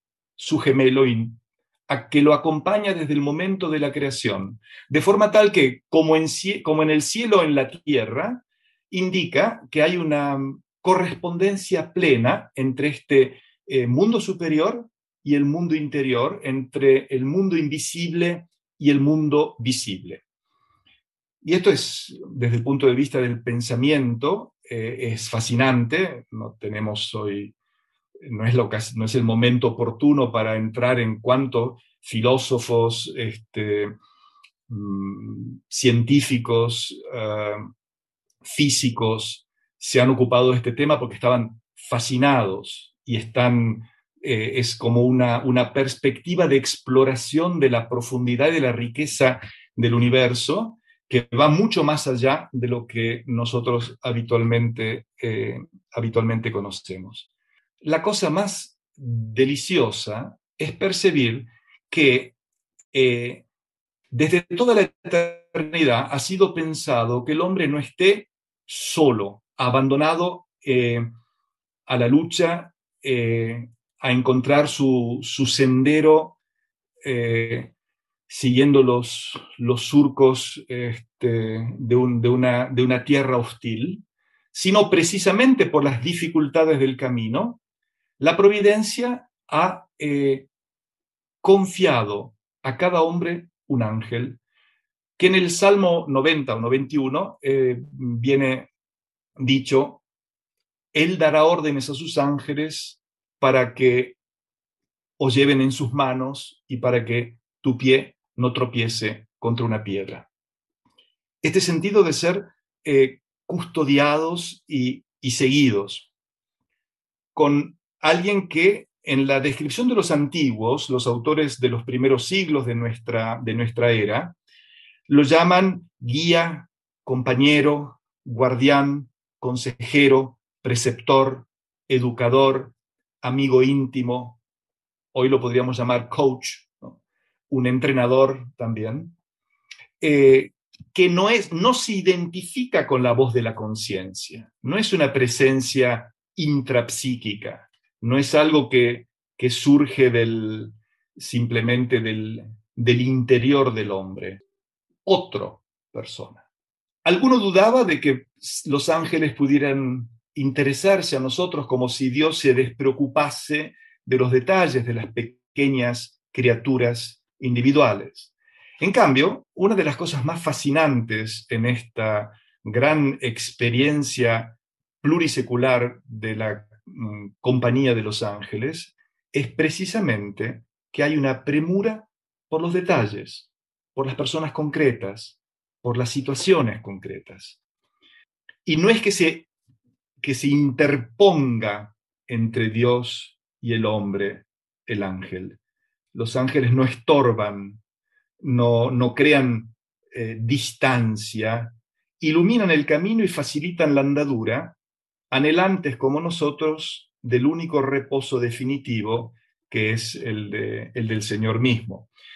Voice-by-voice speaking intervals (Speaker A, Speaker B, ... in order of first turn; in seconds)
Speaker A: 0.4-20.2, 21.4-27.5, 28.2-33.9, 34.7-37.7, 38.4-57.3, 57.8-62.4, 62.9-63.5, 64.1-71.1, 71.9-76.4, 77.0-77.7, 78.3-84.0, 84.5-87.6, 88.2-90.5, 91.4-94.4, 95.2-98.7, 99.4-100.0, 100.9-104.2, 105.2-110.3, 111.4-116.1, 117.3-124.4, 125.1-134.4, 135.1-139.1, 140.0-154.4, 155.0-156.4, 157.0-187.6, 188.6-189.5, 190.2-195.6, 196.1-197.8, 198.4-204.8, 205.3-212.1